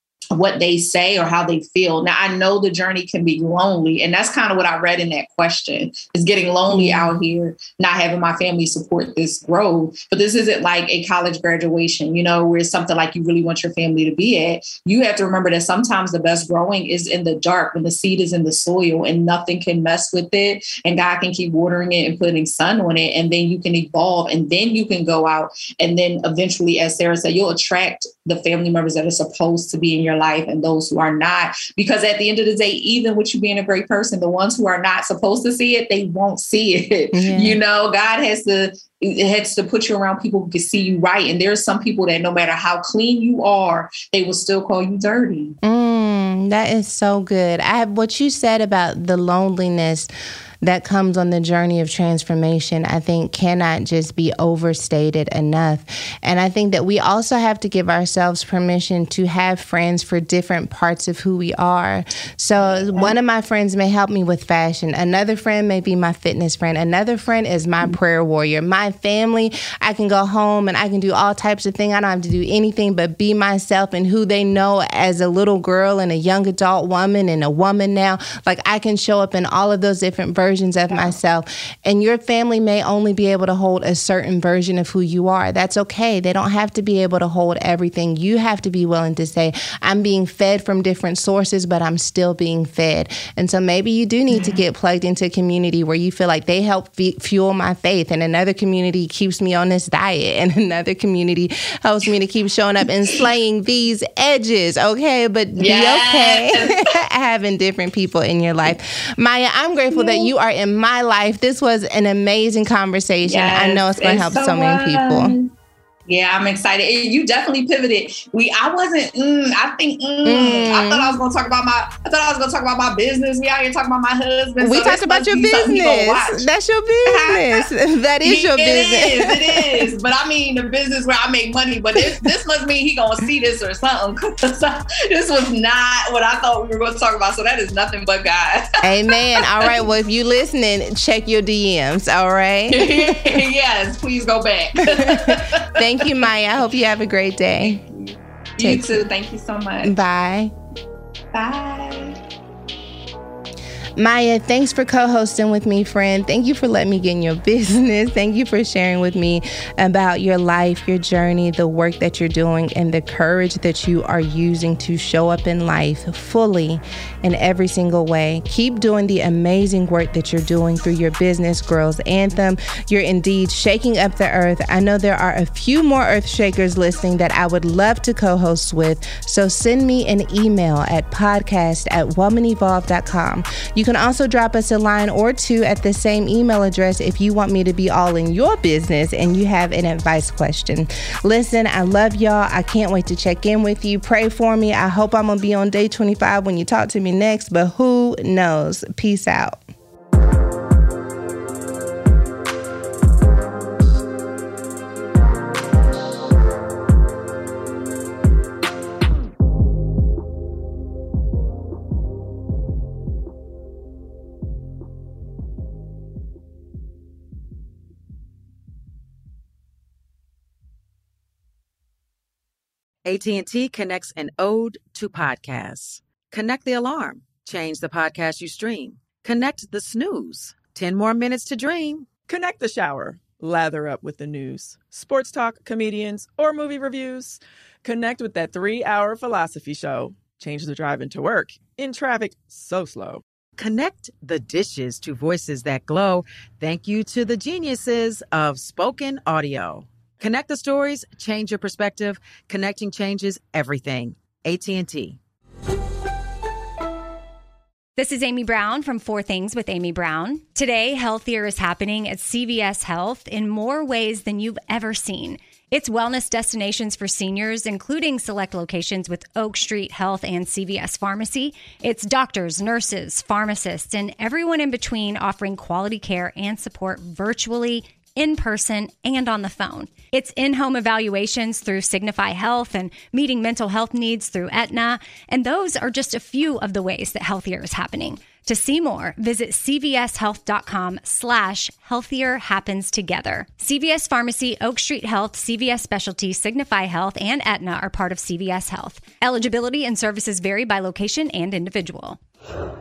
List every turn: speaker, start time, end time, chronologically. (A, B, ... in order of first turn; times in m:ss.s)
0:00.3-0:45.6 A
0:06.7-0:07.1 B
0:37.1-0:37.6 B
0:45.6-0:50.1 B
0:50.6-1:55.4 B
1:02.6-1:03.1 A
1:34.3-1:34.6 A
1:45.6-1:46.8 A
1:49.9-1:50.3 A
1:53.2-1:55.5 A
1:56.1-2:06.5 A
2:00.2-2:01.2 B
2:04.6-2:09.9 B
2:07.0-2:07.7 A
2:08.2-2:19.8 A
2:12.0-2:12.3 B
2:18.8-2:23.4 B
2:22.7-2:25.8 A
2:24.9-2:27.8 B
2:27.6-2:30.0 A
2:28.6-2:29.1 B
2:29.8-2:30.5 B
2:31.3-2:32.2 A
2:34.0-3:19.6 B
3:43.0-3:52.2 C
3:52.2-4:03.2 D
4:03.6-4:15.2 C
4:18.0-5:02.2 E